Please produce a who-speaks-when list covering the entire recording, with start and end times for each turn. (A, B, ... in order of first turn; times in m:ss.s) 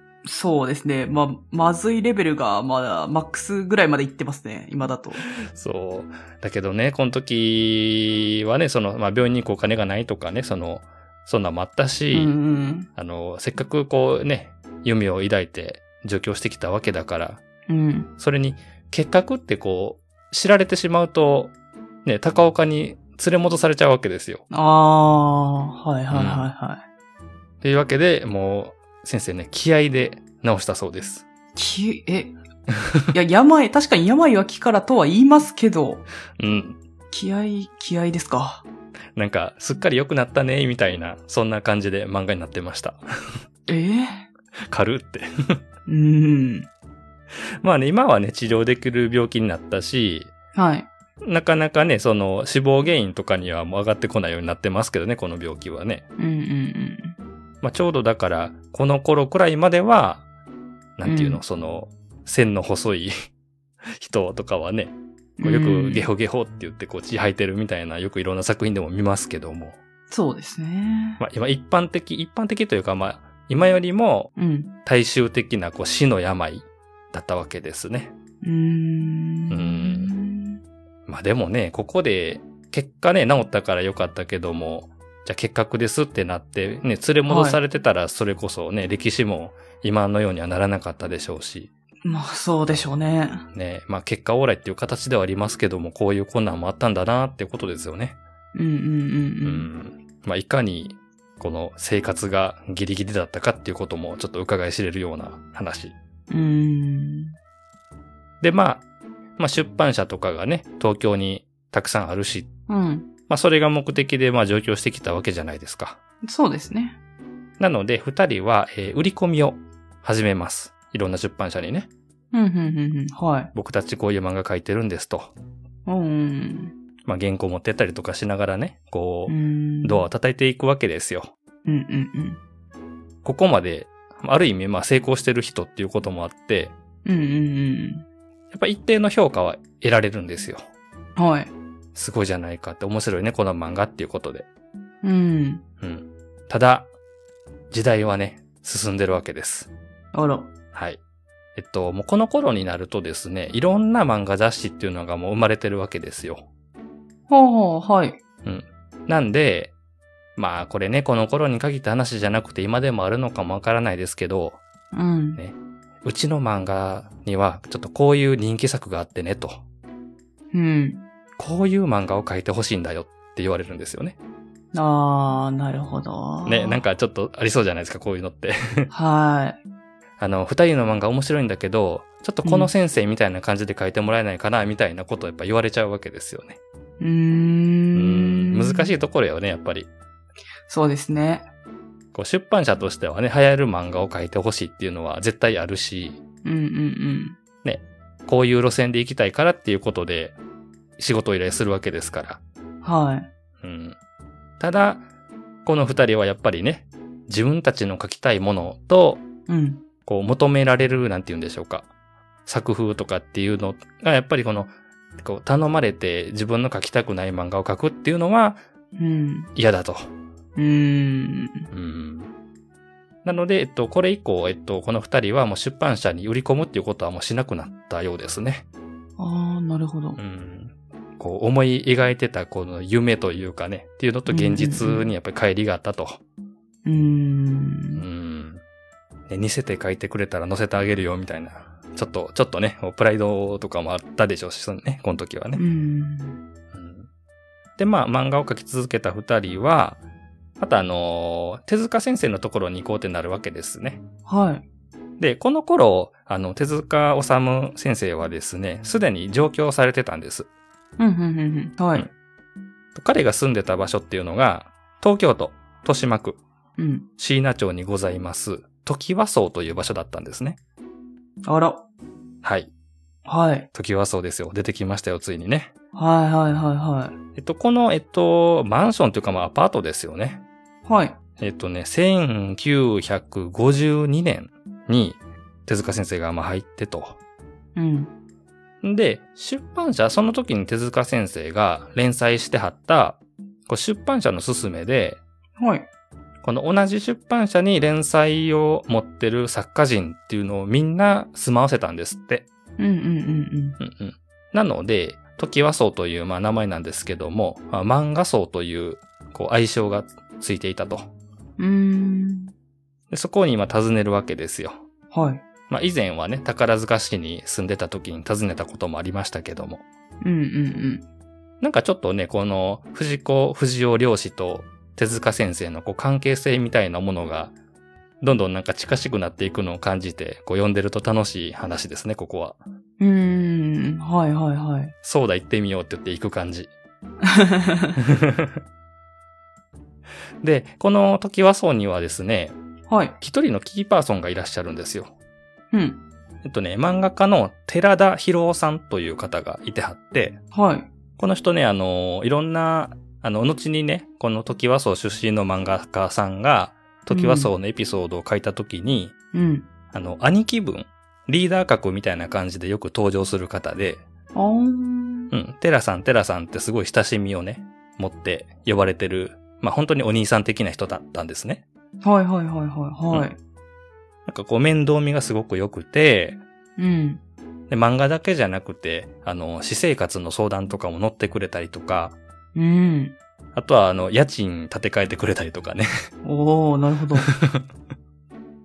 0:00.2-0:05.2 A
0:05.3-0:12.3 B
0:12.1-0:12.9 A
0:12.9-0:17.4 B
0:17.7-0:18.1 A
0:18.2-0:21.5 B
0:22.0-0:24.4 B
0:24.5-0:26.8 A
0:26.1-0:26.5 B
0:27.6-0:31.2 B
0:31.5-0:32.3 A
0:33.1-0:36.0 A
0:36.4-0:36.8 B
0:37.1-0:38.6 A
0:39.2-0:43.0 B
0:43.7-0:44.2 A
0:44.7-0:45.6 B
0:45.9-0:46.7 A
0:47.6-0:50.3 B
0:50.5-0:50.9 A
0:51.2-0:56.0 B
0:56.2-0:57.1 A
0:57.6-1:00.2 B
1:01.0-1:03.1 B
1:01.0-1:01.4 A
1:04.0-1:09.8 B
1:05.4-1:06.1 A
1:10.1-1:11.2 A
1:11.2-1:14.3 B
1:14.4-1:14.7 A
1:14.8-1:18.1 B
1:18.4-1:20.6 A
1:19.5-1:20.1 B
1:21.1-1:31.7 B
1:27.2-1:27.6 A
1:32.0-1:33.4 A
1:33.5-1:38.2 B
1:38.5-1:39.7 A
1:39.4-1:45.9 B
1:46.3-1:47.4 A
1:48.4-1:48.8 B
1:49.4-1:52.5 B
1:52.7-1:53.1 A
1:53.3-1:56.0 B
1:56.2-1:57.0 A
1:57.6-2:01.9 B
2:02.3-2:03.5 A
2:03.5-2:05.3 B
2:05.8-2:06.7 A
2:07.0-2:11.3 B
2:09.3-2:10.0 A
2:11.6-2:12.4 A
2:13.2-2:16.7 B
2:17.0-2:18.0 A
2:18.5-2:20.6 B
2:21.2-2:21.5 A
2:21.9-2:24.5 B
2:25.0-2:25.6 A
2:25.8-2:26.9 B
2:27.7-2:29.7 B
2:30.1-2:30.5 A
2:30.7-2:31.0 B
2:31.6-2:36.4 B
2:37.3-2:38.2 A
2:38.4-2:39.7 B
2:40.4-2:44.6 B
2:44.9-2:45.4 A
2:45.4-2:49.6 B
2:50.5-2:51.0 A
2:51.4-2:54.2 B
2:54.7-2:56.8 A
2:56.4-2:58.9 B
2:58.9-2:59.6 A
3:00.2-3:06.6 B
3:02.4-3:02.7 A
3:07.0-3:08.9 A
3:07.9-3:09.9 B
3:10.7-3:11.4 A
3:12.1-3:16.2 B
3:16.4-3:17.4 A
3:17.6-3:20.4 B
3:21.0-3:22.4 B
3:22.8-3:23.3 A
3:23.6-3:24.0 B
3:24.6-3:25.0 B
3:25.6-3:29.2 B
3:29.5-3:29.8 A
3:30.0-3:31.9 B
3:32.4-3:38.6 B
3:39.0-3:39.5 A
3:39.5-3:40.1 B
3:40.6-3:41.7 A
3:41.7-3:42.3 B
3:43.2-3:48.6 B
3:49.2-3:50.2 A
3:50.2-3:56.2 B
3:54.3-3:55.1 A
3:56.8-3:58.0 A
3:57.9-3:58.6 B
3:59.3-4:05.6 B
4:05.6-4:06.4 A
4:06.7-4:07.1 B
4:07.8-4:10.0 B
4:10.6-4:14.0 B
4:14.3-4:14.6 A
4:15.2-4:20.5 B
4:21.0-4:22.1 A
4:22.9-4:26.4 B
4:26.8-4:27.1 A
4:27.2-4:30.6 B
4:31.4-4:31.8 A
4:32.4-4:32.7 B
4:33.2-4:33.7 A
4:33.7-4:35.7 B
4:35.9-4:37.2 A
4:37.4-4:40.4 B
4:40.8-4:41.2 A
4:41.4-4:47.2 B
4:47.8-4:48.1 A
4:48.8-4:55.2 B
4:55.6-4:55.9 A
4:56.4-5:02.4 B
5:02.8-5:03.8 A
5:03.8-5:11.1 B
5:11.6-5:12.5 A
5:13.1-5:14.8 B
5:15.1-5:15.4 A
5:15.7-5:19.8 B
5:20.2-5:21.0 A
5:21.6-5:27.5 B
5:28.2-5:32.6 B
5:33.0-5:34.9 A
5:35.0-5:36.7 B
5:37.2-5:38.0 A
5:38.0-5:38.6 B
5:40.4-5:42.5 B
5:42.9-5:43.1 A
5:43.2-5:45.1 B
5:45.7-5:46.0 A
5:46.4-5:50.4 B
5:50.5-5:50.9 A
5:51.2-5:59.1 B
5:57.1-5:57.5 A
5:59.3-5:59.7 A
5:59.9-6:04.0 B
6:04.3-6:05.3 A
6:05.3-6:11.6 B
6:12.0-6:13.4 A
6:14.2-6:16.4 B
6:16.8-6:17.2 A
6:17.7-6:22.2 B
6:22.5-6:23.2 A
6:23.5-6:25.9 B
6:26.2-6:27.3 A
6:27.2-6:27.6 B